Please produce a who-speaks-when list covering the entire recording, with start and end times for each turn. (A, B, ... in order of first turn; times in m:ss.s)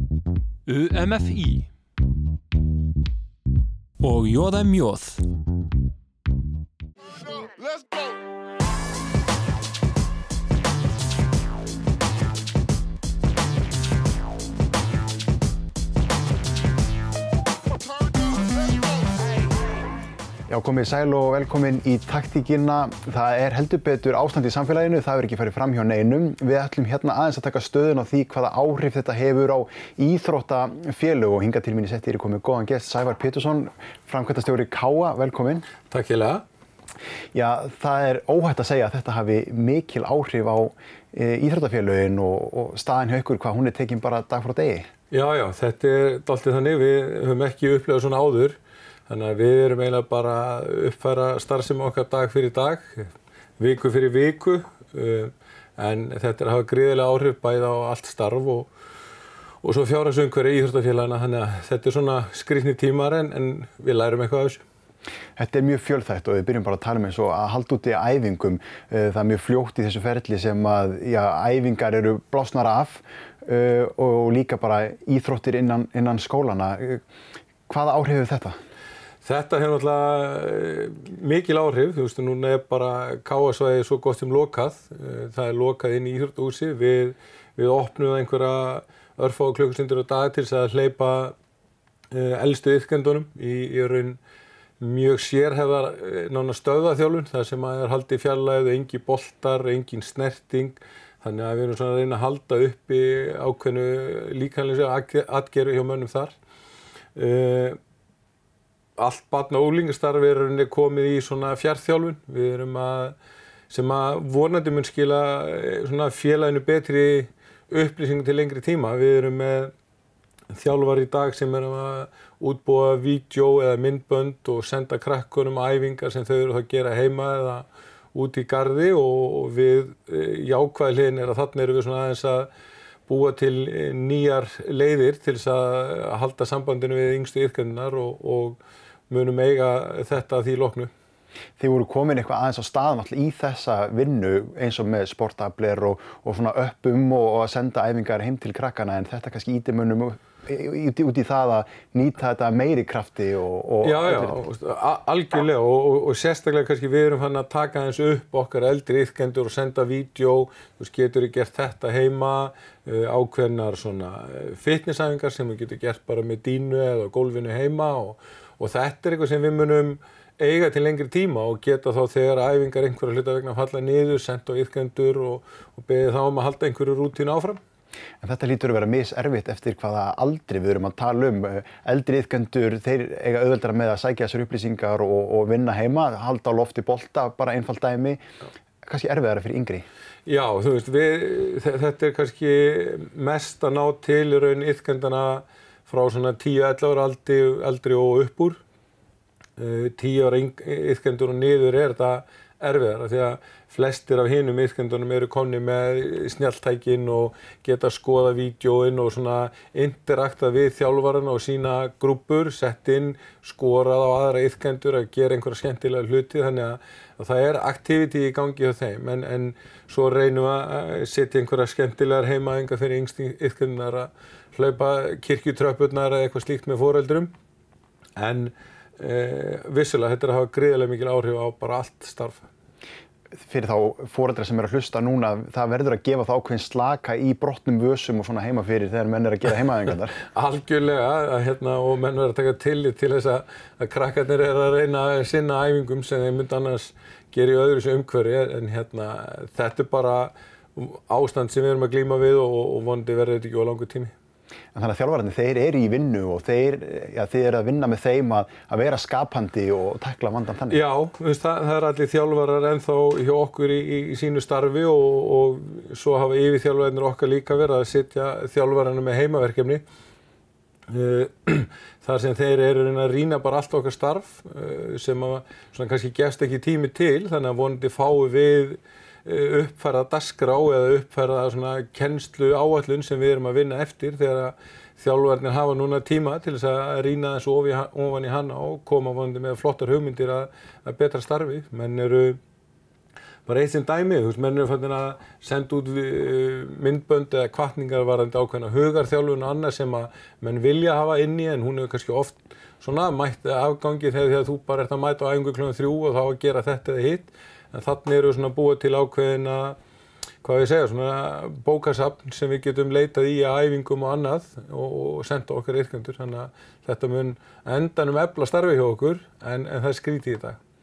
0:00.7-0:01.7 A
0:04.0-0:05.2 A
0:20.5-0:35.7 B
0:35.9-0:36.4 C
0:37.3-0:44.9 B
0:45.1-0:48.6 C
0:49.1-0:58.7 C
0:59.6-1:04.6 C
1:05.4-1:17.0 B
1:17.7-1:18.6 B
1:19.2-1:31.4 C
1:32.1-1:34.2 C
1:34.8-1:46.4 C
1:47.2-1:47.8 C
1:49.0-1:53.2 C
1:53.7-1:59.7 C
2:00.5-2:12.5 C
2:13.1-2:18.6 C
2:19.1-2:20.9 C
2:21.6-2:34.4 B
2:33.8-2:57.6 C
2:58.2-3:08.2 B
3:08.8-3:09.9 B
3:10.3-3:18.6 C
3:19.6-3:47.3 C
3:48.2-3:52.5 C
3:53.4-4:00.2 B
4:00.2-4:14.1 C
4:14.7-4:20.8 B
4:20.7-4:29.8 C
4:30.9-4:52.4 C
4:53.5-5:09.8 C
5:10.4-5:20.6 C